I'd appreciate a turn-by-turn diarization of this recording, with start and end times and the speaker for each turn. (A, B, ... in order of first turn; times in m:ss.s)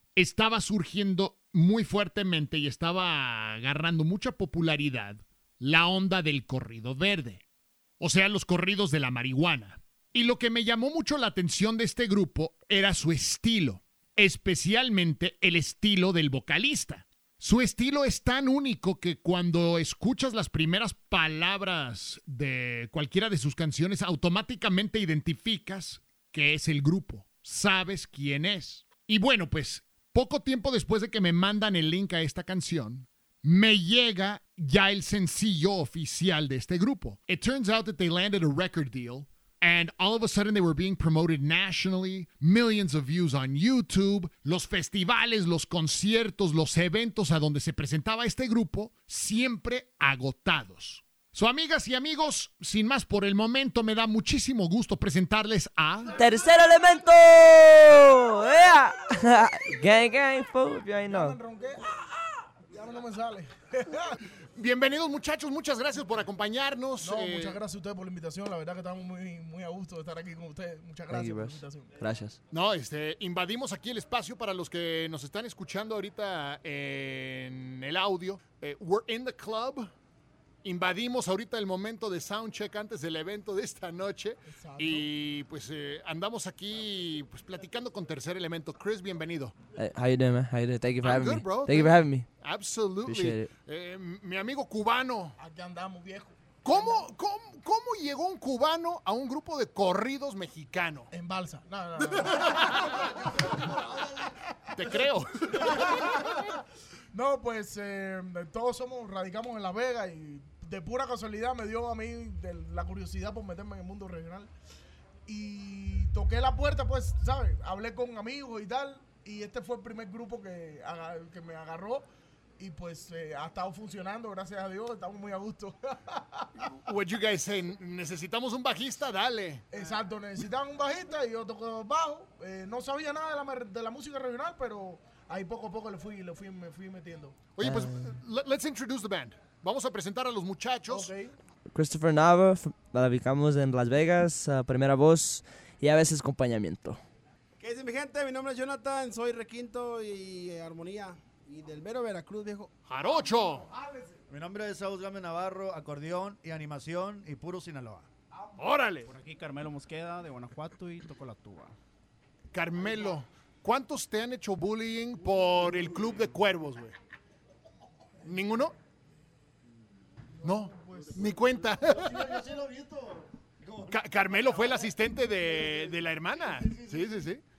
0:00.2-0:07.4 A
0:08.0-0:56.2 A
0:56.2-1:01.4 B
0:56.8-0:57.4 C
1:01.0-1:04.2 C
1:04.6-1:07.6 A
1:07.0-1:12.0 C
1:11.1-1:12.4 B
1:12.5-1:19.9 A
1:20.6-1:29.5 A
1:24.4-1:25.1 C
1:29.7-1:32.3 B
1:31.0-1:35.4 A
1:33.0-1:33.5 B
1:35.4-1:37.0 C
1:36.6-1:41.1 A
1:41.1-1:54.5 C
1:42.0-1:43.0 A
1:42.5-1:44.3 D
1:44.7-1:46.4 A
1:55.3-2:02.1 C
2:02.6-2:06.7 C
2:06.8-2:09.6 A
2:09.7-2:17.4 C
2:17.6-2:21.1 A
2:17.6-2:18.1 B
2:20.9-2:21.3 C
2:21.7-2:27.0 B
2:27.6-2:32.7 E
2:32.8-2:33.7 A
2:33.1-2:34.2 C
2:34.3-2:38.1 D
2:38.3-2:38.6 C
2:38.6-2:39.1 A
2:39.0-2:41.7 F
2:42.5-2:46.9 A
2:48.2-2:48.7 A
2:50.4-2:51.4 C
2:50.4-2:52.4 A
2:51.7-2:57.1 D
2:53.9-2:57.4 A